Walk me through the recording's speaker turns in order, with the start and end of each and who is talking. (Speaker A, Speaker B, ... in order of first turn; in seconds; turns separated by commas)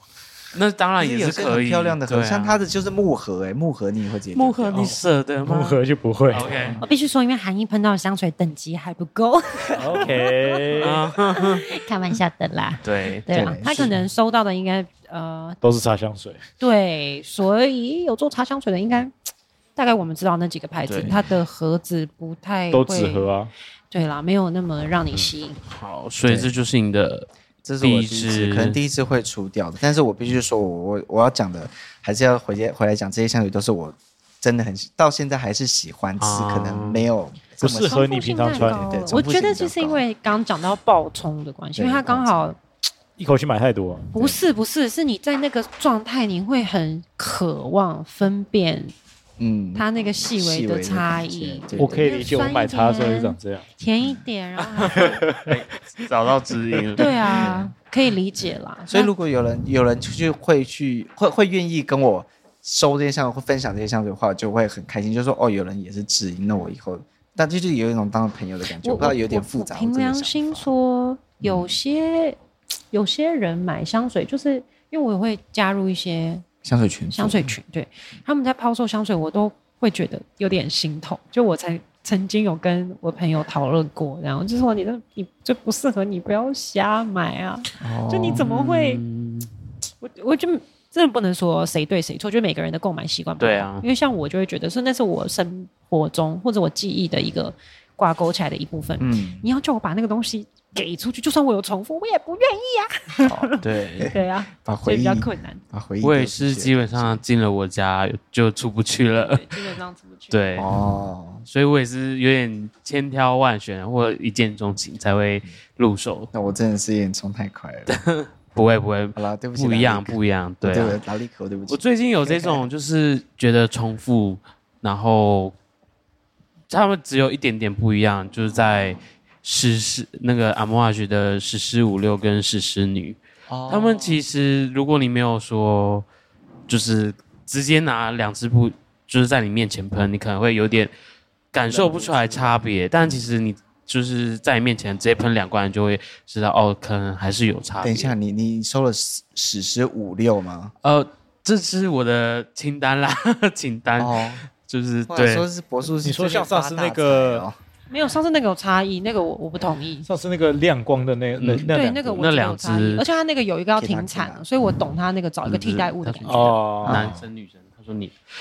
Speaker A: 0.5-2.6, Speaker B: 1.0-5.0, Speaker A: 4.3-6.8, Speaker C: 4.7-6.6, Speaker B: 6.5-6.8, Speaker D: 6.8-15.6, Speaker C: 9.8-11.0, Speaker A: 10.8-11.7, Speaker A: 12.8-13.3, Speaker B: 13.3-14.0, Speaker C: 15.6-16.4, Speaker D: 16.6-19.1, Speaker D: 19.8-23.3, Speaker A: 20.9-21.2, Speaker C: 22.7-23.5, Speaker D: 23.9-25.6, Speaker A: 25.7-27.3, Speaker B: 26.2-26.5, Speaker B: 27.6-40.0, Speaker A: 27.8-28.8, Speaker A: 36.2-37.1, Speaker C: 37.6-38.9, Speaker D: 37.7-42.6, Speaker B: 41.8-42.5, Speaker C: 43.2-44.1, Speaker D: 44.1-48.9, Speaker B: 44.1-44.4, Speaker B: 49.4-52.2, Speaker D: 49.8-55.2, Speaker C: 51.8-53.7, Speaker A: 54.7-57.1, Speaker C: 54.9-55.6, Speaker C: 56.7-57.1, Speaker D: 57.0-59.1, Speaker B: 57.3-57.7, Speaker B: 58.9-70.7, Speaker D: 68.8-72.4, Speaker B: 71.4-71.8, Speaker D: 72.9-76.5, Speaker B: 76.6-77.5, Speaker D: 77.1-89.0, Speaker B: 87.8-88.5, Speaker A: 88.3-89.5, Speaker D: 90.0-105.6, Speaker A: 93.4-93.8, Speaker B: 99.0-99.5, Speaker B: 103.2-107.2, Speaker A: 103.6-104.1, Speaker A: 106.0-109.7, Speaker D: 109.1-110.5, Speaker A: 110.3-110.7, Speaker B: 110.6-111.5, Speaker A: 111.5-116.3, Speaker B: 116.3-117.9, Speaker A: 117.9-121.0, Speaker B: 119.2-122.7, Speaker A: 121.7-125.5, Speaker A: 126.7-136.1, Speaker B: 133.5-134.2, Speaker A: 136.7-140.9, Speaker A: 141.5-148.1, Speaker B: 141.7-143.3, Speaker B: 147.8-150.7, Speaker A: 150.8-155.5, Speaker B: 154.0-154.4, Speaker B: 155.1-157.6, Speaker C: 156.0-157.4, Speaker D: 157.9-160.1, Speaker C: 160.1-162.2, Speaker A: 161.4-163.1, Speaker D: 161.7-166.6, Speaker B: 163.8-164.4, Speaker A: 165.5-168.2, Speaker C: 166.3-167.1, Speaker B: 166.8-167.2